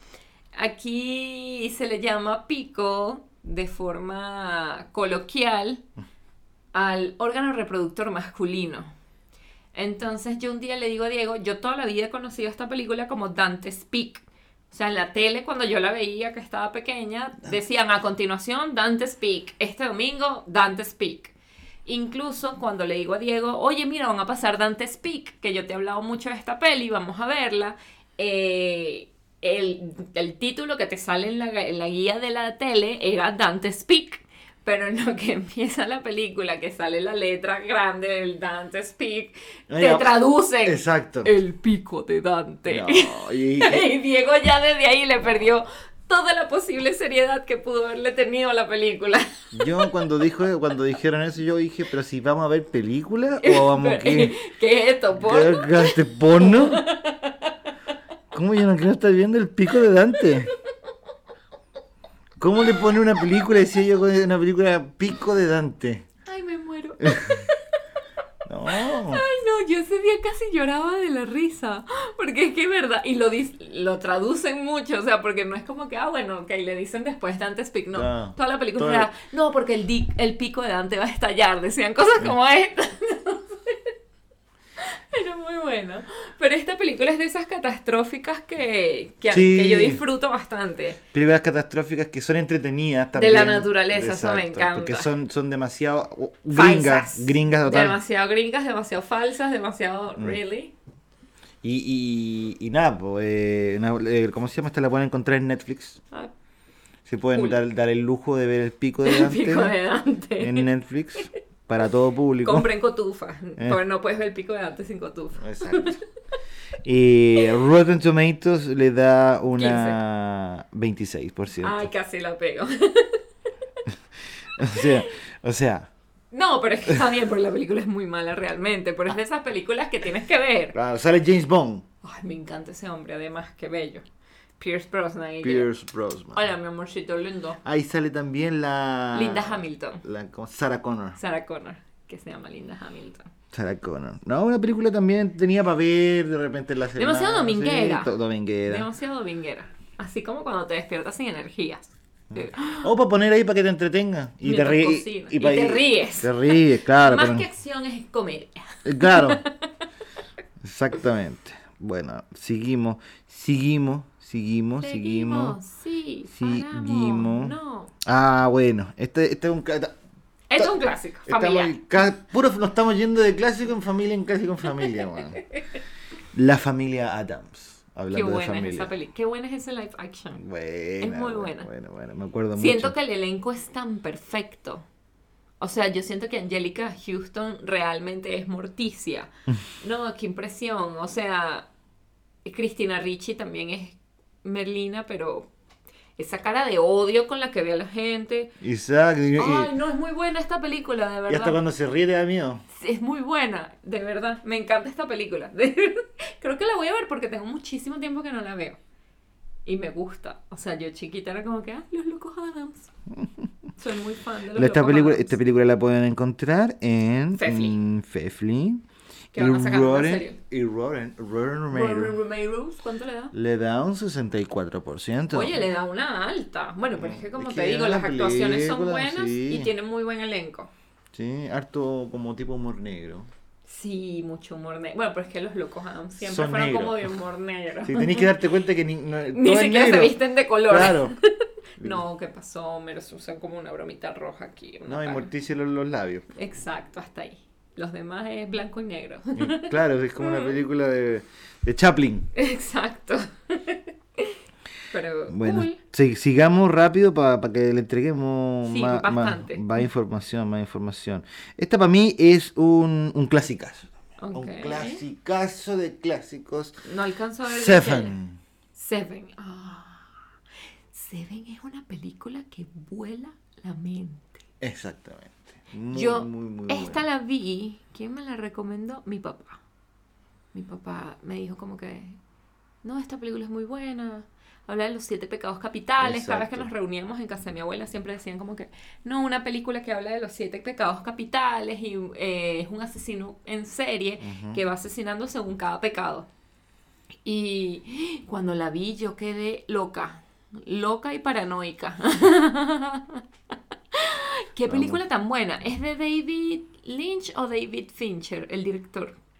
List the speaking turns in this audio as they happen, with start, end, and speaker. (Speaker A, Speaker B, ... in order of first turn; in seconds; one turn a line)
Speaker A: 0.5-5.8
Speaker A: 6.7-8.9
Speaker A: 9.7-21.3
Speaker A: 21.9-49.9
Speaker B: 39.7-41.3
Speaker B: 42.7-43.9
Speaker B: 49.5-54.4
Speaker A: 53.4-57.6
Speaker B: 55.1-56.8
Speaker B: 58.3-60.5
Speaker B: 62.4-66.0
Speaker A: 66.2-67.8
Speaker B: 67.0-67.4
Speaker B: 68.4-69.2
Speaker A: 68.7-83.9
Speaker B: 77.9-79.1
Speaker A: 84.8-91.0
Speaker B: 89.3-90.0
Speaker B: 91.1-98.0
Speaker A: 93.1-95.1
Speaker A: 96.5-100.7
Speaker B: 101.6-106.0
Speaker B: 107.0-109.8
Speaker A: 107.3-107.6
Speaker A: 109.0-110.7
Speaker B: 110.4-112.7
Speaker A: 112.4-116.0
Speaker B: 115.4-116.0
Speaker B: 116.8-121.9
Speaker A: 119.6-120.0
Speaker A: 121.6-123.2
Speaker B: 124.5-125.9
Speaker A: 124.6-125.0
Speaker A: 126.3-130.8
Speaker B: 130.7-131.8
Speaker A: 132.0-134.0
Speaker A: 134.6-135.7
Speaker B: 135.4-136.4
Speaker A: 136.3-137.6
Speaker B: 137.6-141.2
Speaker A: 139.1-140.0
Speaker A: 141.2-143.3
Speaker B: 143.5-148.9
Speaker A: 146.9-148.1
Speaker A: 148.7-152.9
Speaker B: 152.3-157.5
Speaker A: 154.4-159.7
Speaker B: 158.8-159.4
Speaker B: 160.6-165.6
Speaker A: 164.8-167.9
Speaker B: 166.3-169.9
Speaker A: 170.5-171.8
Speaker B: 171.2-175.4
Speaker B: 176.3-178.9
Speaker A: 178.1-180.4
Speaker B: 180.3-182.9
Speaker A: 181.0-181.7
Speaker A: 182.6-184.8
Speaker A: 185.6-191.7
Speaker A: 192.4-195.5
Speaker A: 196.2-198.5
Speaker B: 198.6-199.7
Speaker A: 199.4-201.6
Speaker B: 201.3-202.6
Speaker A: 202.7-208.8
Speaker A: 209.7-212.9
Speaker B: 213.1-213.5
Speaker A: 213.8-215.3
Speaker B: 214.5-222.2
Speaker A: 217.3-217.8
Speaker A: 219.3-220.4
Speaker A: 221.7-223.3
Speaker B: 223.3-225.6
Speaker A: 225.3-230.7
Speaker B: 227.0-229.7
Speaker B: 231.1-233.3
Speaker A: 233.6-238.3
Speaker B: 236.2-237.1
Speaker B: 237.8-241.1
Speaker A: 239.3-241.2
Speaker A: 241.8-245.3
Speaker B: 244.8-246.2
Speaker A: 246.3-250.5
Speaker B: 249.3-252.3
Speaker A: 252.3-254.4
Speaker A: 254.9-255.8
Speaker B: 255.3-266.8
Speaker A: 258.7-259.7
Speaker A: 264.2-265.0
Speaker A: 266.8-268.1
Speaker B: 267.4-268.4
Speaker A: 268.7-270.1
Speaker A: 270.9-274.4
Speaker B: 274.6-277.0
Speaker A: 275.9-279.6
Speaker A: 280.5-282.2
Speaker A: 282.8-296.3
Speaker B: 286.0-286.7
Speaker B: 294.2-294.6
Speaker A: 297.2-303.2
Speaker A: 303.9-309.2
Speaker B: 304.7-305.0